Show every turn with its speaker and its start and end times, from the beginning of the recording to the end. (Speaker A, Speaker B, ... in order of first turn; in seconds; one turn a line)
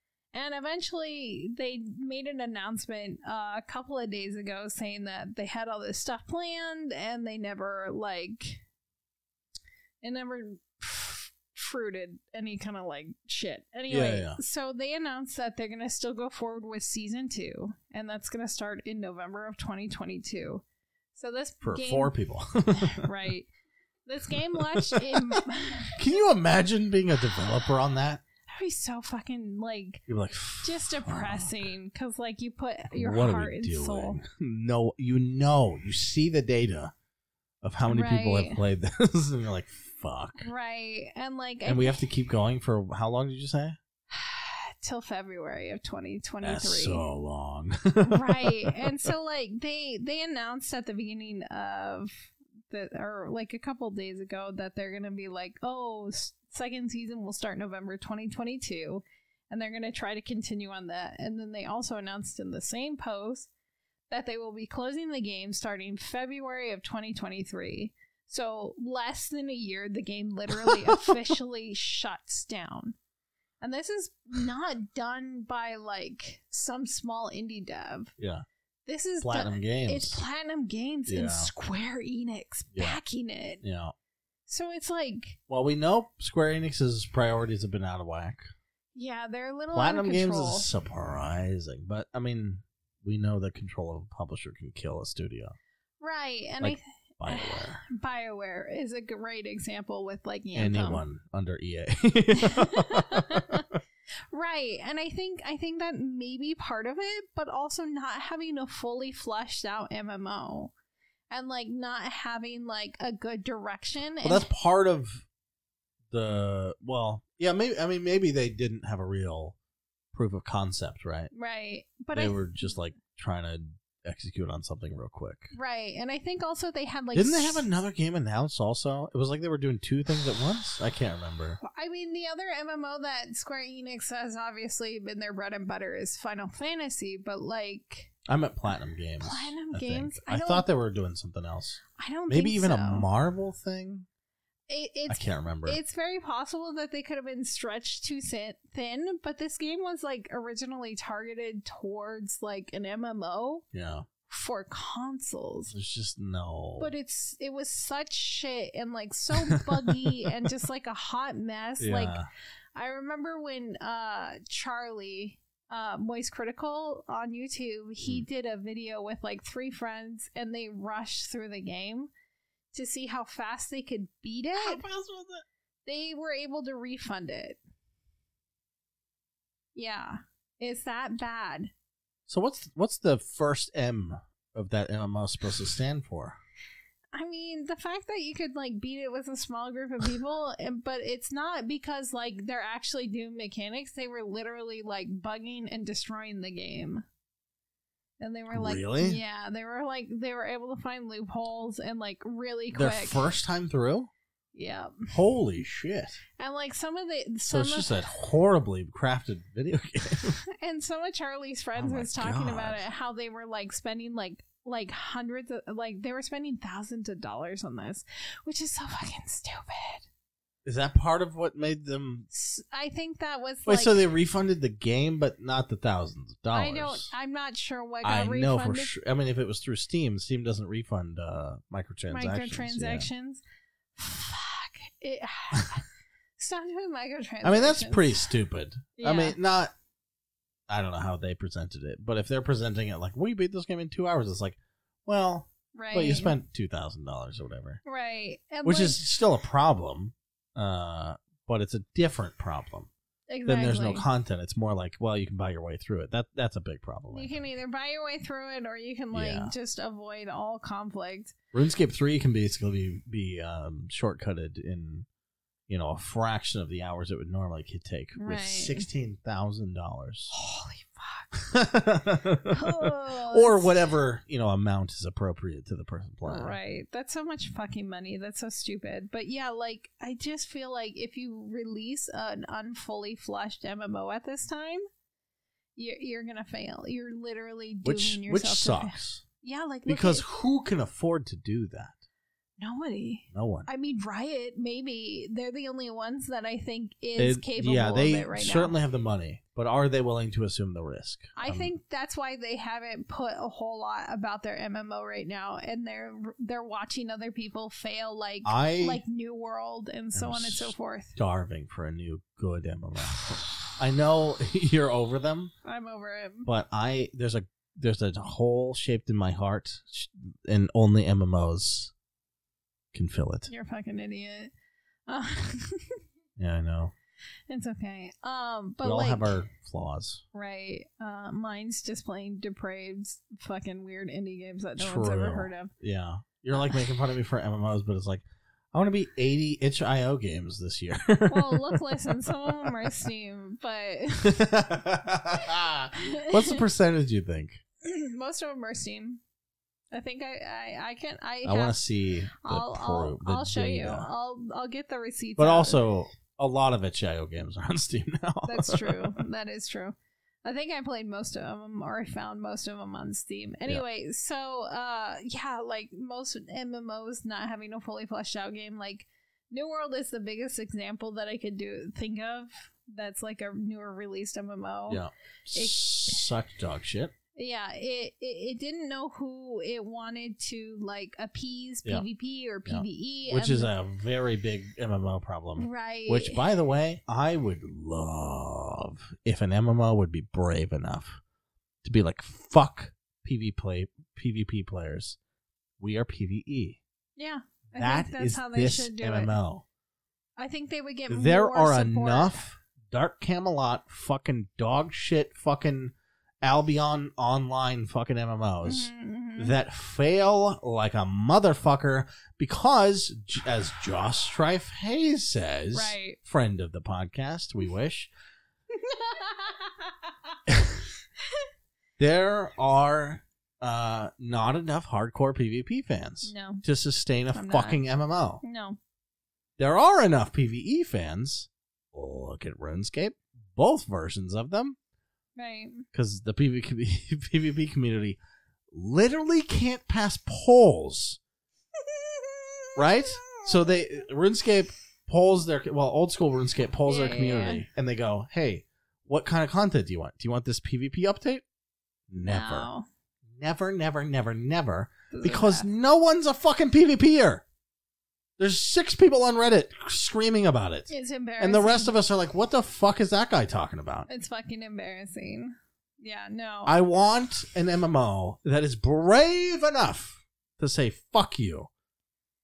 Speaker A: 0.3-8.6
Speaker A: 10.0-22.1
Speaker B: 13.9-14.4
Speaker B: 21.6-23.1
Speaker A: 22.7-23.5
Speaker A: 24.1-26.0
Speaker B: 24.3-25.4
Speaker B: 25.9-28.2
Speaker A: 28.5-30.0
Speaker B: 30.1-31.6
Speaker A: 30.6-34.2
Speaker B: 32.9-36.9
Speaker B: 37.6-40.5
Speaker A: 37.9-38.6
Speaker A: 40.4-42.1
Speaker B: 41.6-43.8
Speaker A: 44.1-47.1
Speaker B: 46.4-48.9
Speaker A: 48.1-63.5
Speaker A: 64.1-73.0
Speaker B: 70.5-71.2
Speaker A: 73.6-78.1
Speaker B: 78.2-78.5
Speaker A: 78.9-83.6
Speaker B: 79.2-80.2
Speaker B: 81.1-81.5
Speaker B: 82.7-83.0
Speaker B: 83.6-83.9
Speaker A: 84.5-85.4
Speaker B: 85.5-88.5
Speaker A: 89.0-90.7
Speaker B: 89.7-95.6
Speaker A: 96.0-101.0
Speaker B: 96.6-97.8
Speaker B: 100.5-103.6
Speaker A: 102.4-103.7
Speaker A: 104.3-110.7
Speaker A: 111.3-114.5
Speaker B: 114.2-115.2
Speaker B: 116.1-119.6
Speaker B: 120.1-121.3
Speaker A: 121.3-122.5
Speaker B: 122.1-125.5
Speaker A: 125.5-127.7
Speaker B: 127.1-131.6
Speaker A: 131.6-138.2
Speaker B: 138.3-144.1
Speaker A: 139.2-140.7
Speaker A: 141.9-143.1
Speaker A: 144.7-153.7
Speaker B: 145.1-145.8
Speaker B: 153.7-154.1
Speaker A: 154.3-155.7
Speaker B: 155.7-156.9
Speaker A: 156.8-162.2
Speaker B: 159.5-160.1
Speaker B: 161.8-162.3
Speaker A: 162.8-172.1
Speaker A: 172.7-174.8
Speaker B: 174.6-175.4
Speaker A: 175.9-177.6
Speaker A: 179.8-181.7
Speaker B: 182.3-186.4
Speaker A: 187.1-197.0
Speaker A: 198.2-203.3
Speaker B: 198.5-199.2
Speaker B: 202.7-204.1
Speaker A: 204.6-205.1
Speaker B: 205.1-206.2
Speaker A: 206.4-207.9
Speaker B: 207.5-210.4
Speaker A: 210.5-220.1
Speaker B: 211.8-212.8
Speaker B: 220.7-222.3
Speaker A: 222.3-224.0
Speaker B: 223.7-227.1
Speaker A: 226.5-228.9
Speaker B: 228.0-233.1
Speaker A: 232.1-233.4
Speaker A: 234.0-235.8
Speaker A: 236.4-238.3
Speaker B: 237.4-239.7
Speaker A: 239.0-239.4
Speaker B: 240.7-247.8
Speaker A: 245.8-246.3
Speaker A: 247.8-249.0
Speaker B: 248.7-252.9
Speaker A: 253.3-254.1
Speaker B: 253.5-257.4
Speaker A: 257.1-261.3
Speaker B: 259.1-259.5
Speaker B: 261.5-265.1
Speaker B: 265.7-270.3
Speaker A: 268.2-268.9
Speaker A: 270.3-271.3
Speaker B: 271.4-276.6
Speaker A: 272.5-273.9
Speaker A: 276.2-284.8
Speaker A: 285.8-290.3
Speaker B: 287.8-289.2
Speaker B: 289.9-292.0
Speaker A: 292.6-298.8
Speaker B: 293.3-293.7
Speaker B: 297.2-301.7
Speaker A: 301.4-311.2
Speaker B: 308.4-309.0
Speaker B: 310.1-315.5
Speaker A: 315.6-316.5
Speaker B: 316.4-321.9
Speaker B: 322.9-323.5
Speaker A: 323.5-324.5
Speaker A: 325.1-326.0
Speaker B: 326.4-326.9
Speaker A: 327.5-329.4
Speaker B: 328.8-330.2
Speaker A: 330.3-335.7
Speaker B: 334.8-342.9
Speaker A: 341.3-344.5
Speaker B: 344.2-347.6
Speaker A: 345.9-346.6
Speaker A: 347.8-349.2
Speaker A: 349.9-351.8
Speaker B: 351.4-354.1
Speaker A: 352.4-355.8
Speaker B: 355.4-359.2
Speaker A: 358.5-375.0
Speaker B: 374.9-377.1
Speaker A: 375.5-376.2
Speaker A: 377.4-383.7
Speaker B: 382.7-391.2
Speaker A: 385.6-386.4
Speaker B: 391.8-395.2
Speaker B: 395.8-396.8
Speaker A: 397.2-399.3
Speaker B: 397.8-399.6
Speaker A: 400.4-402.4
Speaker B: 401.1-418.1
Speaker A: 408.6-409.6
Speaker A: 415.7-416.2
Speaker A: 418.7-419.9
Speaker B: 420.5-420.8
Speaker B: 422.0-428.4
Speaker A: 426.2-426.6
Speaker A: 427.3-427.8
Speaker A: 428.4-428.8
Speaker B: 429.6-434.8
Speaker A: 435.4-435.9
Speaker B: 435.9-438.2
Speaker B: 438.7-441.2
Speaker A: 441.9-443.5
Speaker B: 442.8-451.4
Speaker A: 446.9-447.6
Speaker B: 452.1-452.7
Speaker A: 452.3-452.9
Speaker B: 453.4-457.4
Speaker A: 455.1-455.7
Speaker B: 458.4-464.1
Speaker A: 460.9-461.9
Speaker A: 464.1-466.8
Speaker B: 466.7-471.7